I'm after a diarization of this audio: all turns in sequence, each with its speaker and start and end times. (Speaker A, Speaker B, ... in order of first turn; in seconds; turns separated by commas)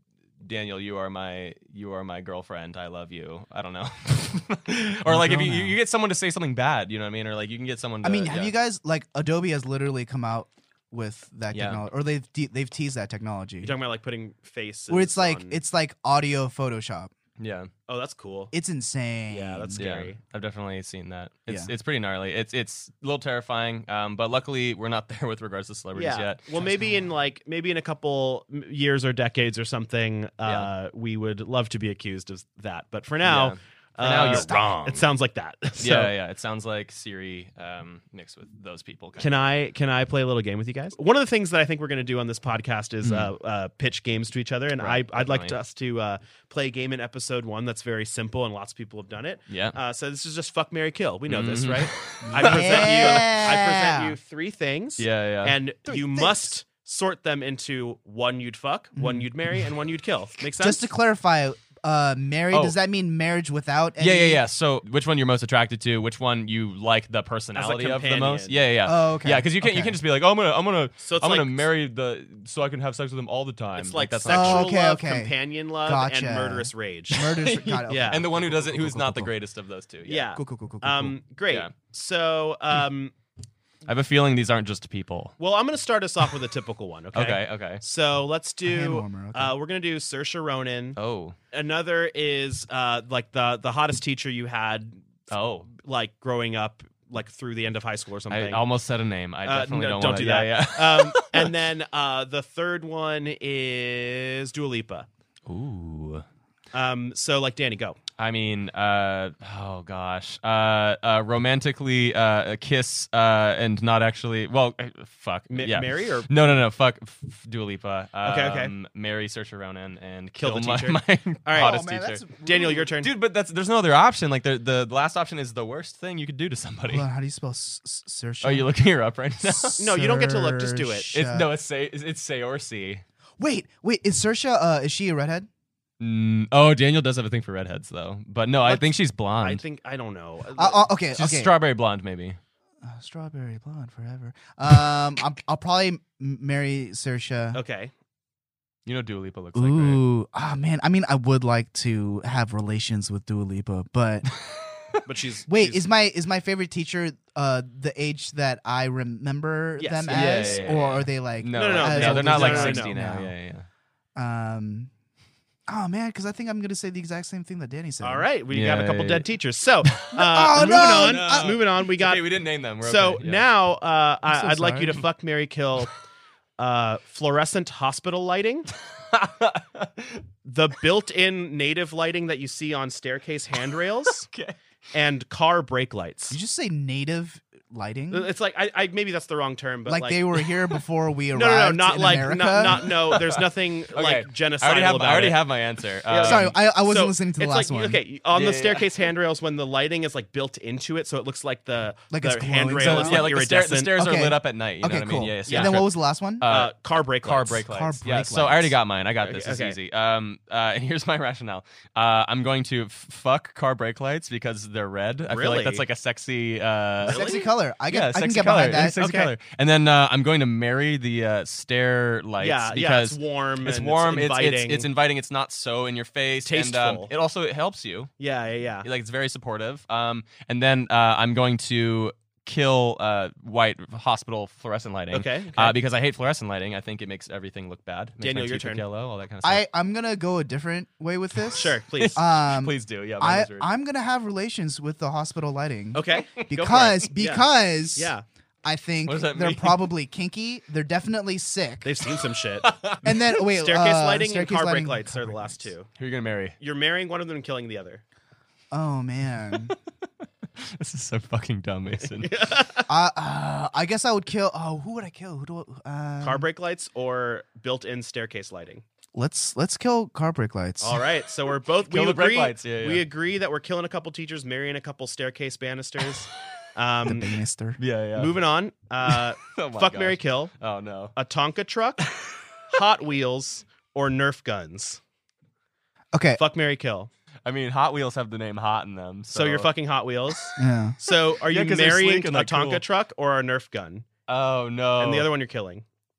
Speaker A: 0.4-8.5, Speaker B: 5.1-5.8, Speaker B: 8.0-13.7, Speaker A: 11.5-11.8, Speaker C: 13.6-15.6, Speaker B: 14.9-17.1, Speaker A: 17.4-17.7, Speaker C: 17.9-18.5, Speaker B: 18.5-19.8, Speaker C: 19.3-20.2, Speaker A: 19.8-26.4, Speaker B: 21.5-21.7, Speaker C: 25.9-36.1, Speaker B: 26.6-27.1, Speaker A: 30.4-30.7, Speaker A: 33.2-34.7, Speaker B: 34.3-35.0, Speaker A: 35.8-39.5, Speaker C: 39.2-60.9, Speaker A: 43.0-43.3, Speaker A: 44.8-45.6, Speaker A: 49.5-49.8, Speaker A: 51.3-53.5, Speaker B: 52.2-54.1, Speaker A: 55.0-55.6, Speaker B: 55.9-56.5, Speaker B: 59.0-59.3, Speaker B: 60.6-64.4, Speaker A: 62.5-62.8, Speaker A: 64.0-74.7, Speaker C: 67.5-68.6, Speaker B: 68.9-70.0, Speaker C: 71.0-71.7, Speaker C: 73.8-77.3, Speaker B: 74.3-79.3, Speaker A: 77.1-80.3, Speaker C: 77.9-78.2, Speaker C: 80.1-83.1, Speaker B: 80.4-81.2, Speaker A: 83.8-85.3, Speaker C: 85.4-91.0, Speaker A: 87.1-87.8, Speaker B: 88.7-89.5, Speaker A: 91.0-91.4, Speaker C: 91.5-95.1, Speaker A: 95.3-95.7, Speaker C: 95.7-98.6, Speaker A: 98.3-101.5, Speaker C: 99.5-105.1, Speaker A: 105.5-106.2, Speaker C: 106.7-108.0, Speaker A: 108.2-122.2, Speaker C: 115.5-116.3, Speaker C: 118.2-118.7, Speaker C: 120.4-121.8, Speaker B: 121.6-122.9, Speaker C: 122.4-123.1, Speaker A: 123.0-127.0, Speaker B: 126.9-128.7, Speaker A: 128.4-129.8, Speaker B: 129.4-131.5, Speaker C: 129.8-131.2, Speaker A: 131.1-133.0, Speaker B: 133.4-135.5, Speaker A: 136.0-139.6, Speaker C: 138.6-140.8, Speaker B: 140.6-141.5, Speaker A: 141.1-142.4, Speaker B: 142.8-147.6, Speaker C: 147.5-147.9, Speaker A: 148.9-150.0, Speaker B: 149.6-154.3, Speaker A: 154.4-155.0, Speaker C: 155.0-155.8, Speaker B: 155.5-163.3, Speaker C: 159.8-160.8, Speaker A: 160.1-163.7, Speaker C: 161.5-162.9, Speaker B: 164.2-164.9, Speaker B: 165.7-168.3, Speaker C: 168.0-175.9, Speaker A: 168.5-169.3, Speaker B: 170.1-171.6, Speaker A: 170.5-173.4, Speaker B: 174.3-175.0, Speaker C: 176.6-178.7, Speaker A: 178.8-180.2, Speaker C: 180.4-184.3, Speaker A: 184.3-184.6, Speaker C: 184.9-186.4, Speaker B: 186.3-188.3, Speaker C: 188.1-190.4, Speaker B: 189.9-192.8, Speaker C: 191.3-195.4, Speaker A: 192.6-196.6, Speaker C: 196.1-204.0, Speaker B: 196.2-198.0, Speaker A: 198.3-198.9, Speaker B: 202.1-203.3, Speaker A: 202.8-228.1, Speaker B: 203.9-206.5, Speaker C: 205.5-205.8, Speaker C: 206.4-207.7, Speaker B: 207.7-208.8, Speaker C: 209.2-209.8, Speaker C: 215.3-215.8, Speaker C: 217.0-217.5, Speaker B: 217.0-219.0, Speaker C: 218.7-219.3, Speaker C: 222.4-224.9, Speaker C: 226.5-227.1, Speaker C: 228.2-228.9, Speaker A: 228.8-239.6, Speaker C: 235.1-235.8, Speaker C: 238.2-238.8, Speaker B: 239.4-248.1, Speaker A: 241.5-243.7, Speaker C: 241.6-242.2, Speaker C: 245.9-248.2, Speaker B: 248.6-251.9, Speaker A: 249.1-249.9, Speaker C: 251.8-252.8, Speaker A: 252.6-253.2, Speaker B: 253.0-255.7, Speaker C: 253.5-255.9, Speaker A: 256.0-256.6, Speaker C: 256.6-258.0, Speaker B: 258.7-259.7, Speaker A: 260.6-262.3, Speaker C: 262.2-262.9, Speaker B: 262.9-266.4, Speaker C: 266.2-268.8, Speaker B: 269.1-271.0, Speaker C: 270.8-277.4, Speaker A: 271.9-273.1, Speaker B: 277.1-277.8, Speaker A: 277.8-278.4, Speaker C: 278.2-280.6, Speaker A: 279.1-281.1, Speaker C: 281.1-282.1, Speaker A: 282.0-282.4, Speaker C: 282.7-285.0, Speaker B: 286.1-286.4, Speaker C: 286.4-287.1, Speaker A: 287.4-289.7, Speaker C: 289.3-294.1, Speaker B: 290.6-291.0, Speaker A: 291.1-292.8, Speaker A: 294.3-295.3, Speaker C: 295.0-295.9